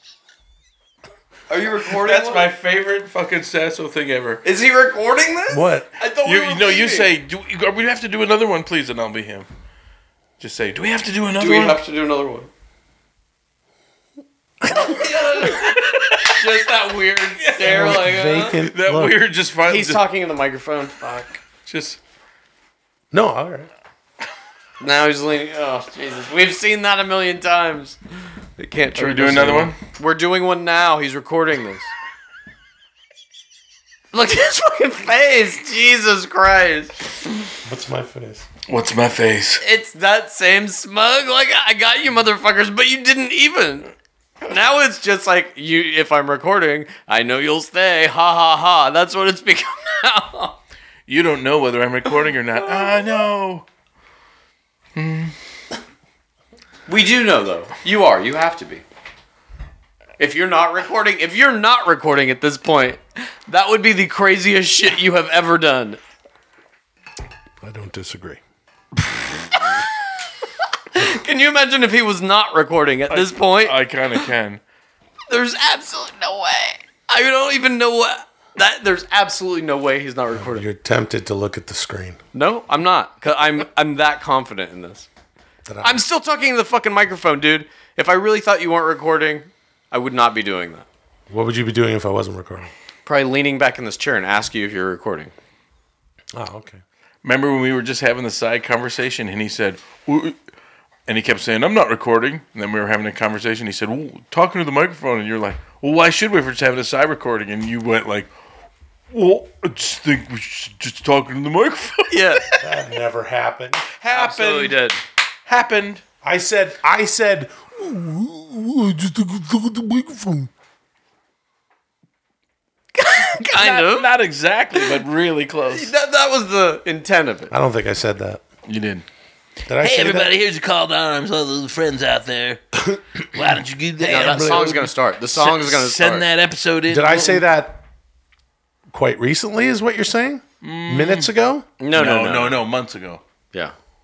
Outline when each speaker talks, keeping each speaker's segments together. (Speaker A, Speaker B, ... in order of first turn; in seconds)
Speaker A: 1.5-2.5, 4.4-7.1, 11.4-12.5, 14.6-18.6, 19.6-21.4, 24.8-28.0, 28.6-31.9, 34.1-37.0, 39.6-50.6, 56.9-58.8, 60.2-66.0, 70.9-74.2, 75.3-80.7, 82.3-85.1, 85.8-90.9, 93.1-95.3, 112.1-112.5, 114.1-115.0, 123.0-124.1, 124.8-125.0, 125.7-127.5, 134.1-136.3, 141.8-142.6
Speaker B: 1.8-4.4, 6.2-9.5, 10.4-11.8, 15.4-16.4, 17.4-20.0, 21.6-22.0, 29.0-29.8, 38.7-39.6, 51.1-53.7, 55.0-55.3, 73.1-74.6, 97.2-100.4, 101.1-108.3, 109.1-112.6, 114.0-114.8, 115.5-116.0, 123.4-125.9, 128.7-129.1, 129.7-137.5, 140.6-141.3, 141.9-143.2
Speaker C: 5.5-5.9, 17.6-19.2, 23.1-23.7, 37.6-38.5, 67.6-68.4, 80.3-82.2, 85.7-86.0, 91.3-92.7, 96.4-96.8, 112.6-113.8, 116.2-120.5, 127.5-128.4, 129.7-130.3, 134.0-134.8, 136.9-137.8, 138.9-141.7